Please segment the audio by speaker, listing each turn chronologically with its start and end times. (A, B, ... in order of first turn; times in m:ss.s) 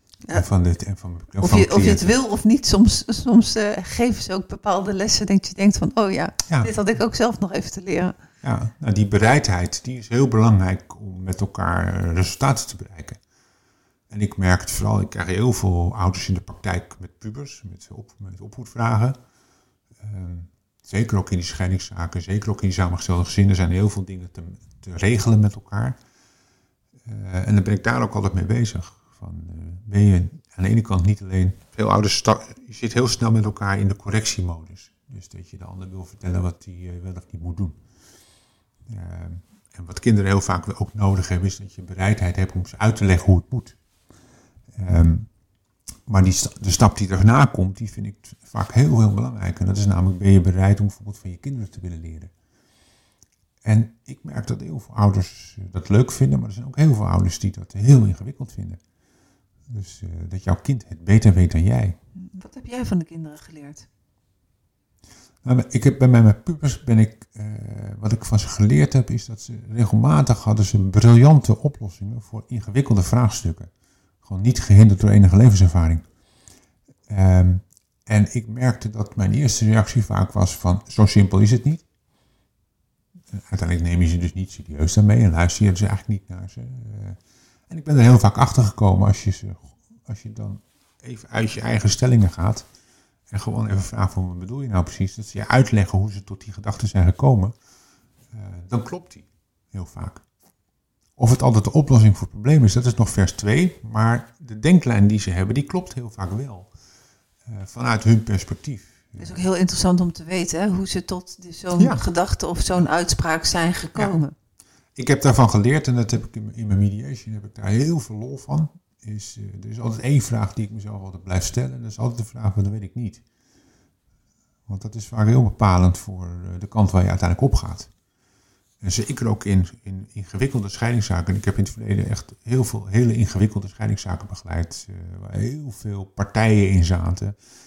0:00.3-0:02.1 A
0:01.4-0:08.2 B
0:08.4-0:13.2 A
0:14.1-0:19.2 A
0:20.0-0:26.0 A
0:27.0-0:37.8 A
0:38.9-0:43.8 A
0:44.7-0:45.3 A
0:46.1-0:52.3 A
0:53.6-0:58.8 A
0:59.7-1:02.0 A
1:02.2-1:03.9 B
1:05.4-1:13.7 A
1:14.2-1:16.0 A
1:17.1-1:21.8 A
1:23.3-1:27.2 A
1:27.7-1:32.7 A
1:33.3-1:37.5 A
1:38.3-1:40.2 A
1:41.2-1:46.7 A
1:47.5-1:49.4 A
1:49.2-1:54.3 B
1:51.8-1:52.0 A
1:55.0-2:03.2 A
2:04.7-2:07.9 A
2:08.8-2:17.4 A